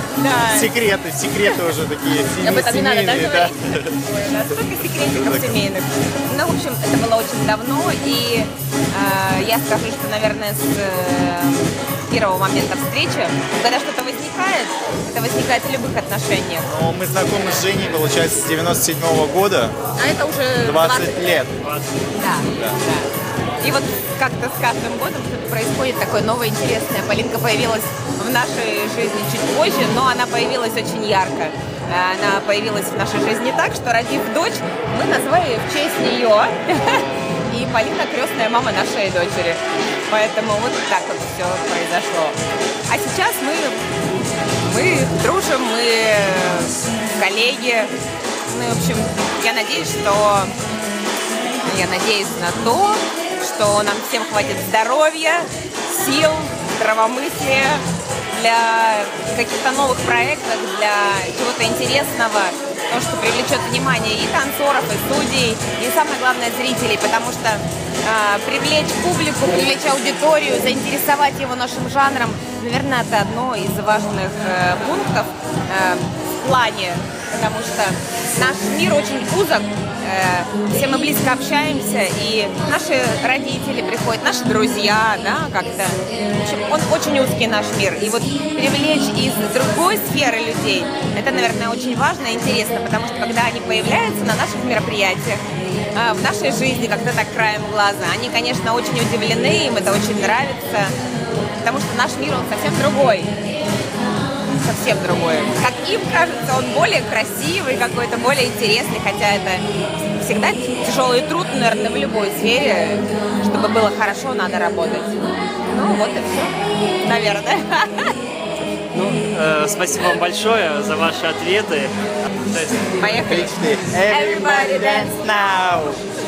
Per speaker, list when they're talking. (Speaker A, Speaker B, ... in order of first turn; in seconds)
Speaker A: 0.1-0.7, 1.4-1.7, 2.3-16.7, 19.9-21.4, 22.2-23.1, 23.6-42.4, 42.9-47.9, 48.5-50.5, 51.6-95.4, 95.9-100.9, 101.6-103.3, 104.6-109.7, 110.2-118.1, 123.0-123.5, 124.1-125.2
Speaker B: 0.4-4.0, 5.0-5.6, 16.6-19.7, 20.6-21.5, 123.2-126.0
Speaker C: 21.6-22.0, 118.9-123.1